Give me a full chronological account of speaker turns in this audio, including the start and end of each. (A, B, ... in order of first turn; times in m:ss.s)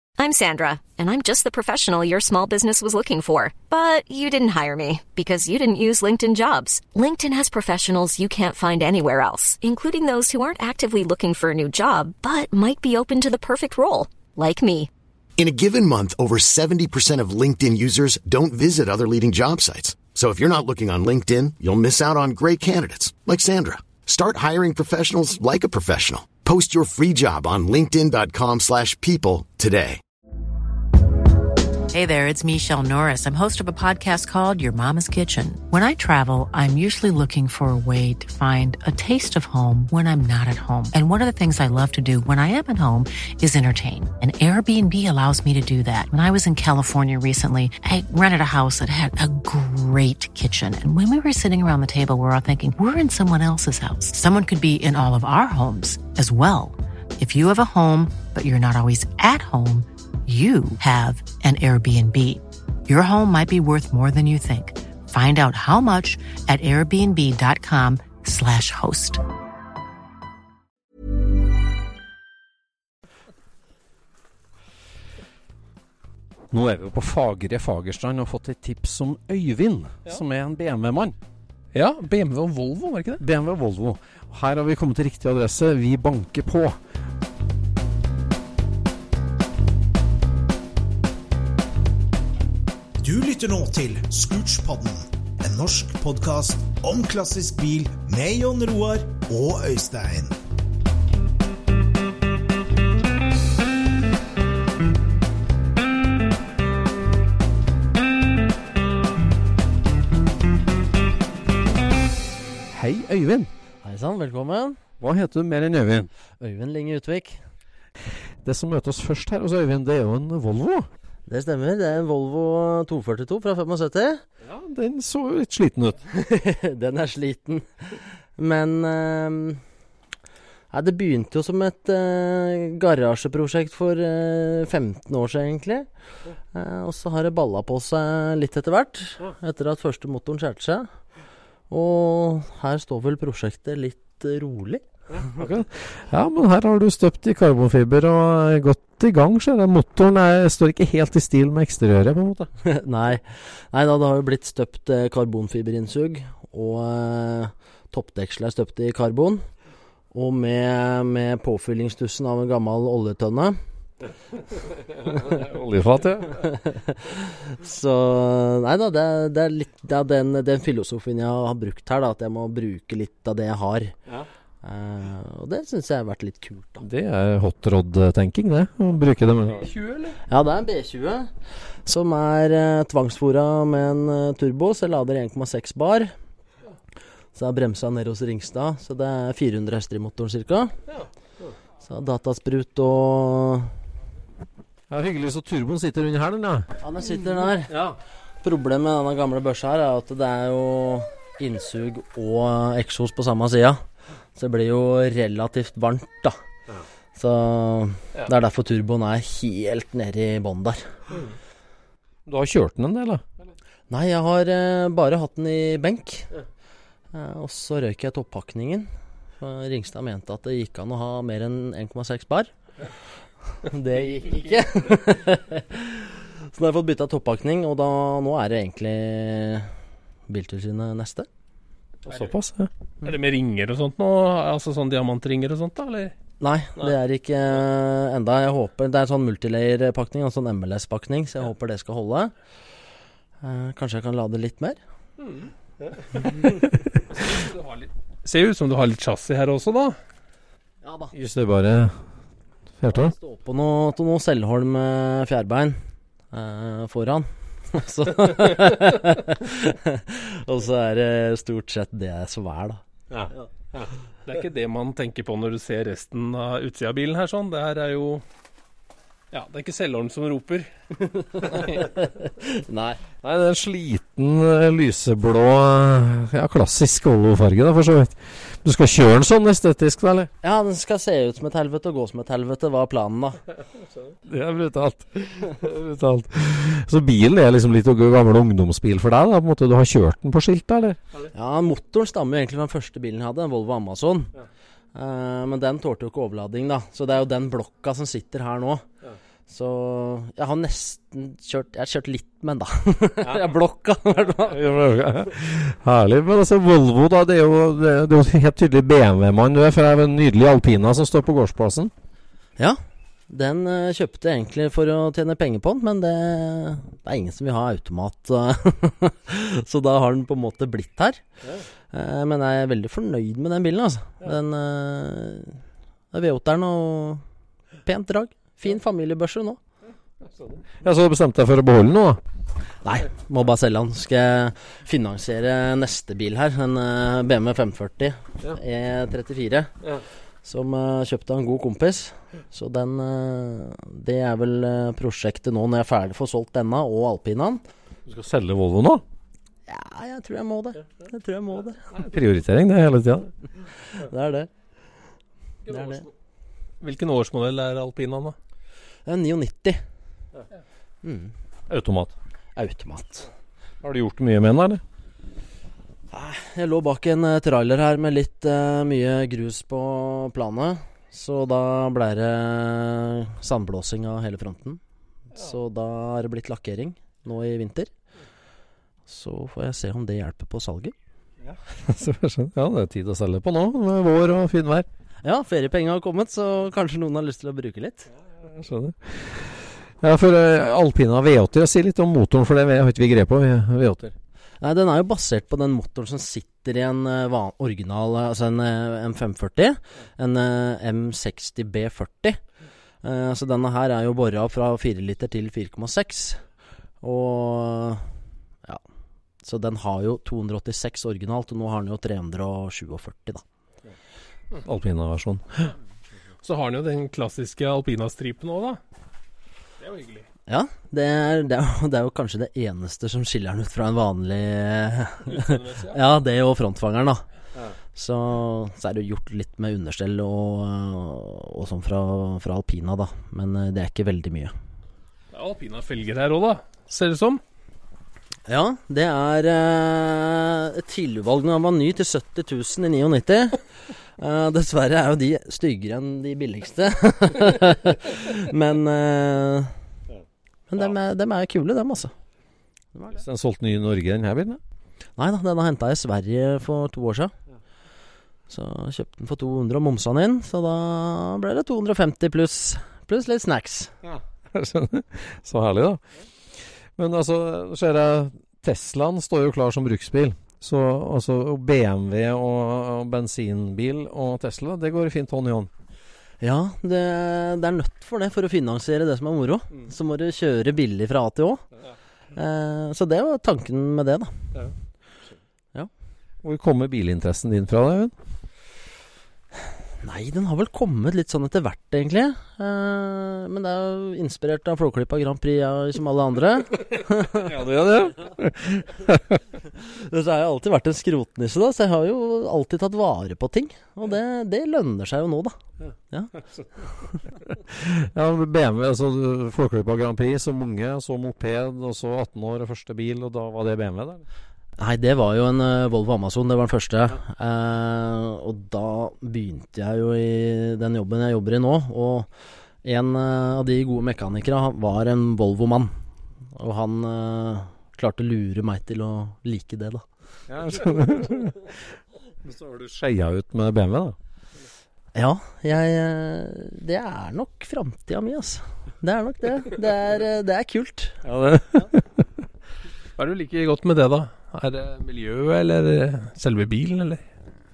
0:00.2-0:14.9 A
0:15.4-0:30.0 B
0:31.9-1:09.2 C
1:16.5-1:21.2 D
1:21.7-1:23.2 E
1:23.2-1:26.8 D
1:33.0-1:40.3 F
1:52.7-1:53.5 D
1:53.8-1:54.8 G
1:55.0-1:56.1 D
1:56.4-1:57.4 G
1:58.4-2:00.9 D
2:01.3-2:04.2 G
2:04.4-2:06.0 D
2:06.1-2:09.6 G
2:10.7-2:15.9 G
2:16.5-2:20.9 G
2:21.7-2:24.8 G
2:25.2-2:32.5 D
2:32.6-2:39.4 G
2:40.1-2:43.6 G
2:44.7-2:46.5 D
2:46.5-2:53.9 G
2:54.6-2:56.8 G
2:56.8-2:59.7 D
2:59.6-3:00.2 E
3:00.3-3:01.3 G
3:01.8-3:06.1 G
3:07.3-3:10.7 G
3:11.8-3:13.7 G
3:14.9-3:16.7 D
3:16.8-3:17.8 G
3:18.4-3:23.8 G
3:24.3-3:26.4 G
3:27.2-3:30.9 G
3:32.2-3:33.2 D
3:33.9-3:36.3 G
3:37.1-3:42.5 G
3:43.6-3:49.7 G
3:50.3-3:51.3 G
3:52.0-3:52.7 D
3:53.0-3:56.1 E
3:56.4-4:02.3 G
4:03.4-4:04.8 G
4:05.2-4:05.5 E
4:07.0-4:10.0 E
4:10.8-4:11.1 G
4:11.1-4:12.0 D
4:12.8-4:13.1 D
4:12.9-4:15.8 G
4:16.3-4:22.8 G
4:24.2-4:28.2 E
4:29.3-4:30.7 E
4:31.0-4:33.0 G
4:33.2-4:40.3 D
4:40.4-4:43.4 G
4:44.2-4:51.0 D
4:51.3-4:54.3 G
4:54.9-4:58.8 G
4:59.5-5:04.6 G
5:04.5-5:11.9 D
5:13.3-5:21.2 G
5:21.9-5:25.6 G
5:26.1-5:27.2 G
5:27.8-5:29.6 G
5:30.4-5:32.2 D
5:32.8-5:39.7 G
5:40.4-5:47.6 G
5:48.0-5:49.0 D
5:49.7-5:51.8 G
5:51.9-5:53.3 D
5:53.9-5:54.5 G
5:55.7-5:56.0 E
5:55.7-5:56.0 G
5:56.8-5:58.4 E
5:59.0-5:59.8 G
6:01.0-6:01.3 G
6:01.7-6:02.1 D
6:02.6-6:03.3 G
6:03.8-6:04.8 D
6:06.1-6:14.8 G
6:15.3-6:17.9 G
6:19.1-6:20.9 G
6:21.8-6:24.9 D
6:25.2-6:28.1 G
6:28.4-6:34.1 D
6:34.6-6:42.4 G
6:43.0-6:46.4 G
6:47.0-6:48.1 G
6:49.4-6:53.4 G
6:54.6-6:55.6 D
6:56.4-6:58.8 E
6:59.8-7:00.3 E
7:00.5-7:07.2 G
7:05.3-7:06.0 E
7:07.9-7:14.5 G
7:15.3-7:17.4 E
7:18.5-7:23.6 G
7:24.2-7:29.7 G
7:30.7-7:32.1 G
7:33.1-7:34.6 D
7:35.2-7:37.3 G
7:38.5-7:43.9 G
7:44.5-7:46.0 D
7:46.6-7:55.7 D
7:56.4-8:01.6 G
8:02.4-8:04.3 G
8:06.4-8:08.1 D
8:10.0-8:17.5 G
8:17.3-8:19.4 D
8:19.7-8:25.6 G
8:27.3-8:34.2 D
8:34.8-8:42.3 G
8:42.8-8:45.9 G
8:46.6-8:50.0 G
8:50.5-8:51.8 D
8:52.4-8:54.2 D
8:55.1-9:01.2 G
9:01.2-9:02.2 D
9:03.2-9:07.2 E